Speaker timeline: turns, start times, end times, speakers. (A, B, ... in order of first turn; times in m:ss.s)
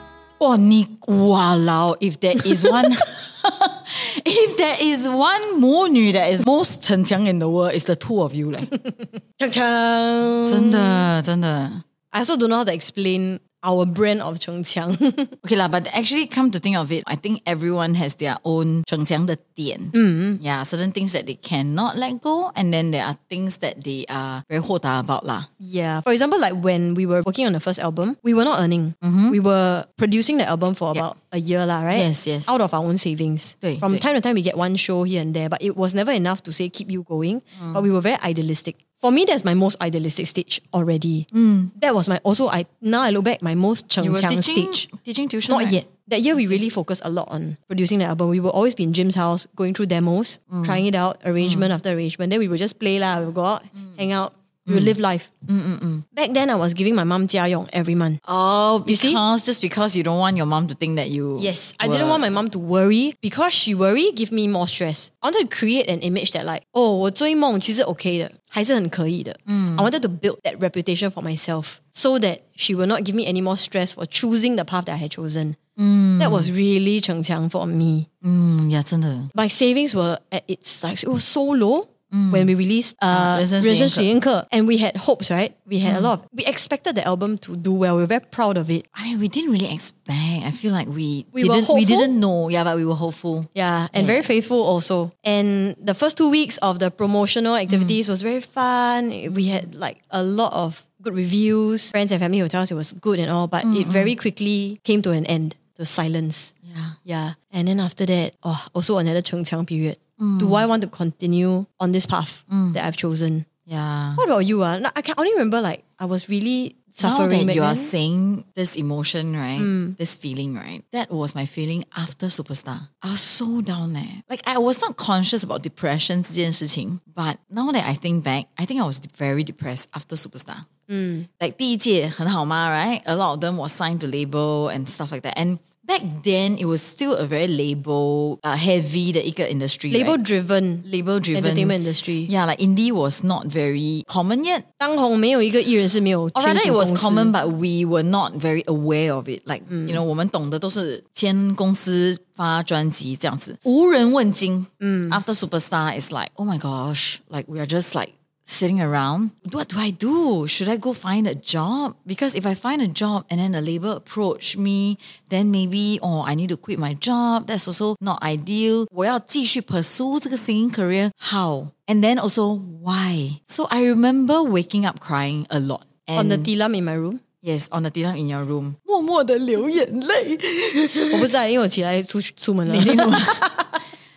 0:00.4-0:08.7 A
0:08.7-0:11.1 B
0:10.5-0:11.8 A
0:12.1-0:15.3 B
0:15.4-0:25.5 A
0:19.9-0:20.4 B
0:25.6-0:44.9 B
0:29.0-0:29.4 A
0:31.9-0:32.5 A
0:33.6-0:34.0 A
0:41.3-0:41.7 A
0:44.0-0:45.8 A
0:45.5-0:55.3 B
0:50.5-0:50.8 A
0:51.4-0:51.7 A
0:54.7-0:55.0 A
0:55.5-0:56.0 A
0:56.2-0:58.2 B
0:58.2-1:02.4 A
0:58.8-0:59.2 B
1:01.4-1:15.6 B
1:09.5-1:09.9 A
1:15.8-1:16.5 A
1:16.2-1:18.1 B
1:18.2-1:19.3 A
1:19.3-1:28.8 B
1:22.1-1:22.5 A
1:23.1-1:24.1 A
1:25.8-1:26.1 A
1:29.0-1:34.3 A
1:31.4-1:32.1 B
1:33.6-1:46.5 B
1:37.7-1:38.0 A
1:43.6-1:44.1 A
1:46.7-1:47.0 A
1:47.0-1:53.5 B
1:50.2-1:50.6 A
1:52.5-1:52.8 A
1:53.7-1:54.2 A
1:54.2-1:57.9 B
1:57.0-2:10.7 A
1:59.6-2:00.0 B
2:10.9-2:11.3 B
2:11.4-2:20.2 A
2:19.9-2:22.3 B
2:20.8-2:24.6 A
2:24.8-2:27.3 B
2:26.4-2:56.5 A
2:29.7-2:30.0 B
2:34.8-2:35.2 B
2:56.2-2:57.2 B
2:57.4-3:01.3 A
3:01.1-3:03.5 B
3:02.7-3:03.6 A